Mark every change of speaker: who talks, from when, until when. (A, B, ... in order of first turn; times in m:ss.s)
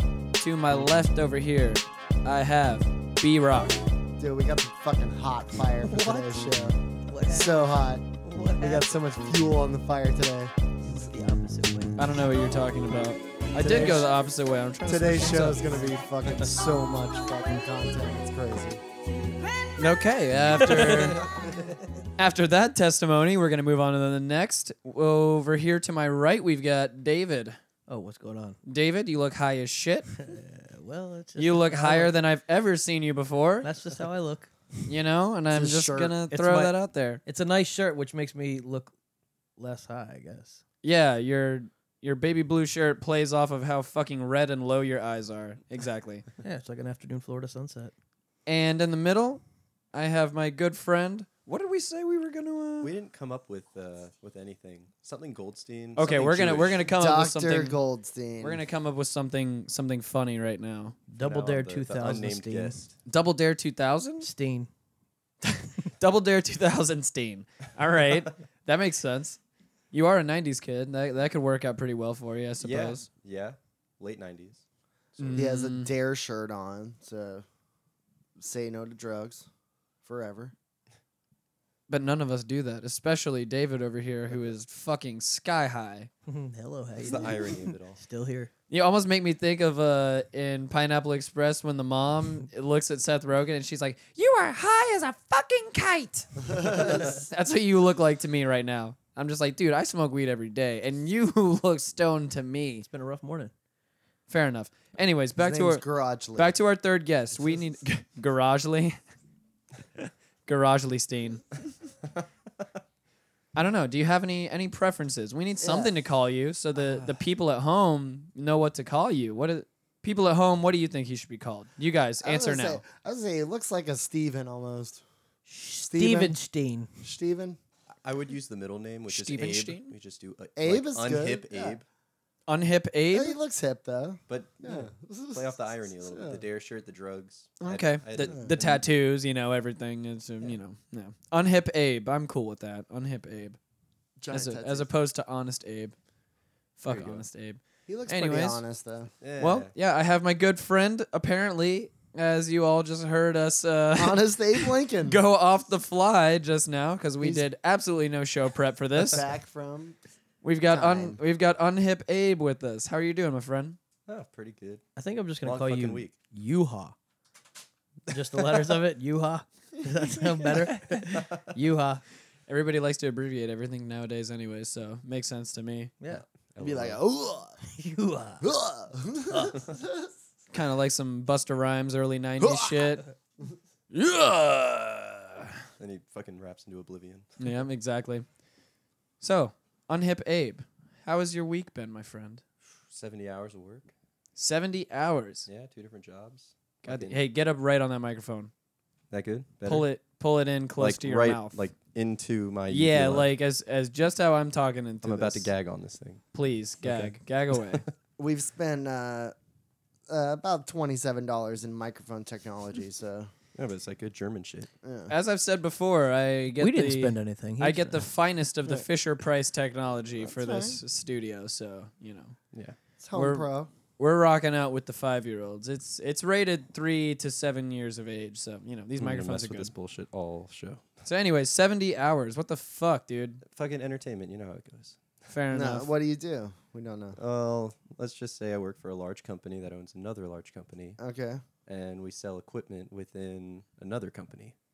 0:00.4-0:03.8 A
0:04.2-0:10.5 B
0:05.8-0:09.4 C
0:10.9-0:12.1 C
0:12.0-0:15.8 A
0:13.6-0:14.1 B
0:14.8-0:18.8 B
0:19.8-0:21.2 A
0:20.6-0:21.3 C
0:22.2-0:27.6 A
0:27.9-0:28.6 C
0:28.6-0:30.1 A
0:30.2-0:32.1 C
0:31.4-0:33.7 A
0:33.6-0:34.5 C
0:34.9-0:37.2 A
0:35.5-0:36.2 B
0:36.3-0:38.9 C
0:39.6-0:40.6 C
0:40.8-0:46.2 A
0:46.4-0:47.9 C
0:48.4-0:49.4 A
0:49.9-0:52.9 A
0:52.8-0:56.8 D
0:56.0-0:57.8 A
0:56.8-0:58.6 B
0:58.4-1:01.0 A
1:01.1-1:02.8 C
1:01.2-1:03.0 D
1:03.1-1:04.3 A
1:04.2-1:04.7 C
1:05.4-1:09.4 A
1:09.9-1:13.1 A
1:12.6-1:14.6 D
1:15.2-1:15.9 A
1:15.3-1:17.4 B
1:18.4-1:19.5 B
1:20.0-1:20.5 B
1:21.9-1:26.1 A
1:26.3-1:28.5 C
1:27.0-1:28.0 D
1:28.7-1:42.8 A
1:36.6-1:36.9 B
1:42.8-1:43.5 C
1:44.3-1:45.8 A
1:45.4-1:46.6 B
1:46.4-1:49.0 A
1:50.0-1:51.5 A
1:53.5-2:02.8 A
1:55.6-1:55.9 B
1:56.8-1:57.2 B
2:02.2-2:05.0 B
2:05.5-2:06.9 C
2:05.8-2:06.4 B
2:07.0-2:07.6 B
2:08.0-2:11.8 D
2:09.1-2:09.9 A
2:10.6-2:11.8 B
2:12.5-2:13.4 A
2:13.1-2:16.4 B
2:14.3-2:18.7 D
2:17.6-2:23.6 A
2:18.2-2:18.8 B
2:24.2-2:24.9 B
2:24.3-2:25.9 A
2:26.8-2:28.6 A
2:26.9-2:27.2 D
2:27.9-2:29.1 B
2:29.2-2:29.7 D
2:29.4-2:39.3 A
2:34.0-2:35.2 B
2:37.2-2:37.4 B
2:39.0-2:40.0 B
2:40.4-2:43.8 A
2:40.7-2:41.2 B
2:44.1-2:44.8 D
2:45.0-2:46.9 C
2:45.4-2:46.1 D
2:48.1-2:52.0 C
2:52.5-2:55.9 A
2:56.1-2:57.0 D
2:56.6-2:57.6 B
2:57.8-2:58.5 C
2:58.4-3:00.1 B
3:00.5-3:03.0 A
3:02.4-3:03.0 B
3:03.9-3:05.5 A
3:05.8-3:07.3 D
3:07.4-3:08.2 A
3:09.2-3:12.4 A
3:12.9-3:13.9 D
3:14.4-3:15.5 A
3:15.4-3:17.2 D
3:16.8-3:18.5 A
3:19.1-3:19.9 D
3:19.6-3:21.6 A
3:20.8-3:23.3 D
3:22.7-3:25.5 A
3:25.0-3:26.2 D
3:26.3-3:27.8 A
3:26.8-3:27.2 D
3:28.2-3:29.3 B
3:30.1-3:33.3 B
3:33.5-3:34.7 D
3:34.8-3:35.1 B
3:35.1-3:42.4 A
3:36.6-3:38.0 C
3:40.2-3:40.8 B
3:43.0-3:43.7 B
3:43.1-3:43.5 A
3:44.0-3:49.7 A
3:49.0-3:50.9 D
3:51.0-3:53.4 A
3:53.4-3:55.2 D
3:55.3-3:55.9 A
3:55.5-3:57.2 B
3:57.2-4:01.0 D
4:01.0-4:01.4 B
4:01.7-4:04.5 D